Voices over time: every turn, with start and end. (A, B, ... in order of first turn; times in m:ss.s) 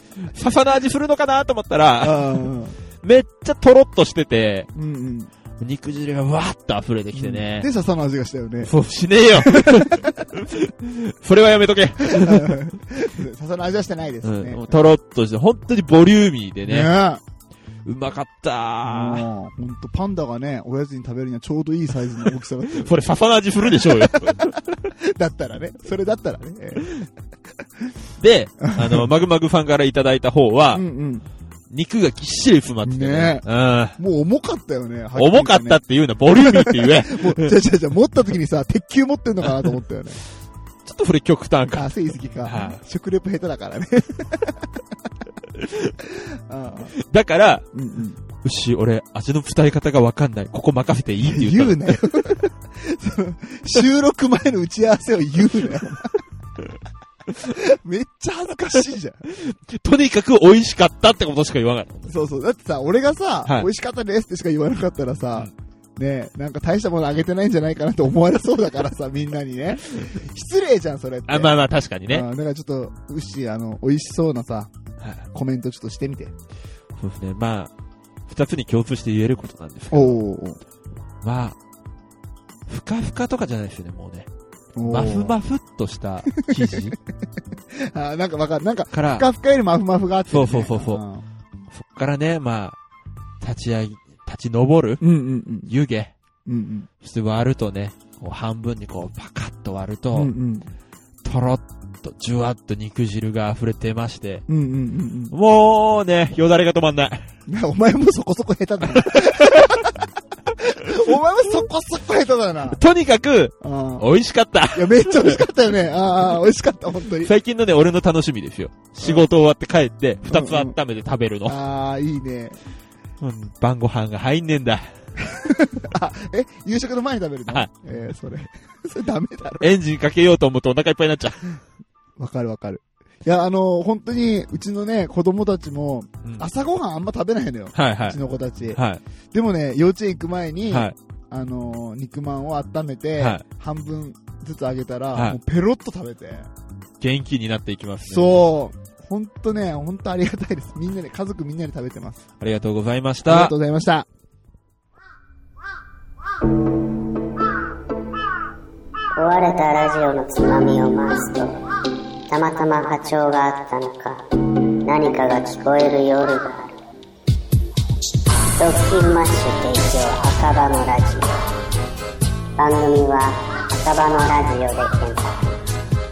0:00.2-0:02.5 A
0:02.0-0:02.8 B
0:03.0-0:04.7 A
0:04.7-0:05.3 B
0:05.6-0:07.7 A
0:07.1-0:08.7 B
0:08.6-0:12.7 A
0:09.4-0:10.3 B
0:12.1-0:14.7 B
0:14.2-0:17.0 A
0:16.6-0:17.2 B
0:17.8-0:19.3 A
0:18.8-0:22.9 B
0:22.7-0:24.5 A
0:23.7-0:26.9 B
0:28.2-0:30.8 A
0:28.6-0:29.0 B
0:30.7-0:31.2 B
0:31.7-0:34.0 A
0:32.8-0:35.8 B
0:35.2-0:37.5 A
0:36.3-0:40.2 B
0:39.4-0:39.7 A
0:40.8-0:42.8 A
0:41.7-0:44.7 B
0:45.6-0:45.9 A
0:46.5-0:46.9 B
0:47.0-0:47.7 A
0:47.7-0:48.2 B
0:48.4-0:52.1 A
0:51.2-0:56.2 B
0:57.4-0:59.2 B
0:59.3-1:02.1 A
1:02.1-1:11.5 B
1:11.3-1:12.2 A
1:12.1-1:14.7 B
1:15.0-1:15.2 A
1:15.3-1:16.3 B
1:17.0-1:17.7 A
1:18.3-1:20.2 A
1:19.9-1:20.6 B
1:21.2-1:21.6 A
1:22.7-1:24.3 A
1:24.8-1:25.4 B
1:24.8-1:27.0 A
1:26.4-1:26.8 B
1:27.7-1:31.3 B
1:28.9-1:29.3 A
1:30.3-1:31.0 A
1:31.7-1:32.8 A
1:33.4-1:35.0 A
1:35.0-1:35.7 B
1:35.6-1:36.1 A
1:36.4-1:36.9 B
1:37.0-1:40.3 A
1:40.1-1:40.7 B
1:41.2-1:44.4 A
1:44.5-1:45.3 B
1:45.3-1:47.3 A
1:47.5-1:50.0 B
1:48.9-1:49.8 A
1:50.6-1:52.8 B
1:52.7-1:55.5 A
1:53.6-1:54.1 B
1:54.7-1:57.3 B
1:57.2-2:01.6 A
2:00.2-2:00.8 B
2:01.4-2:02.6 B
2:03.2-2:05.0 A
2:05.4-2:09.7 B
2:09.6-2:11.4 A
2:12.2-2:18.8 B
2:17.7-2:18.2 A
2:18.7-2:19.0 A
2:19.3-2:26.5 B
2:20.7-2:21.0 A
2:23.2-2:23.4 A
2:27.0-2:28.4 A
2:28.0-2:32.2 B
2:32.4-2:33.5 A
2:33.2-2:34.1 B
2:39.2-2:41.6 C
2:42.3-2:44.2 C
2:44.8-2:46.8 C
2:48.6-2:51.5 C
2:52.6-2:55.6 C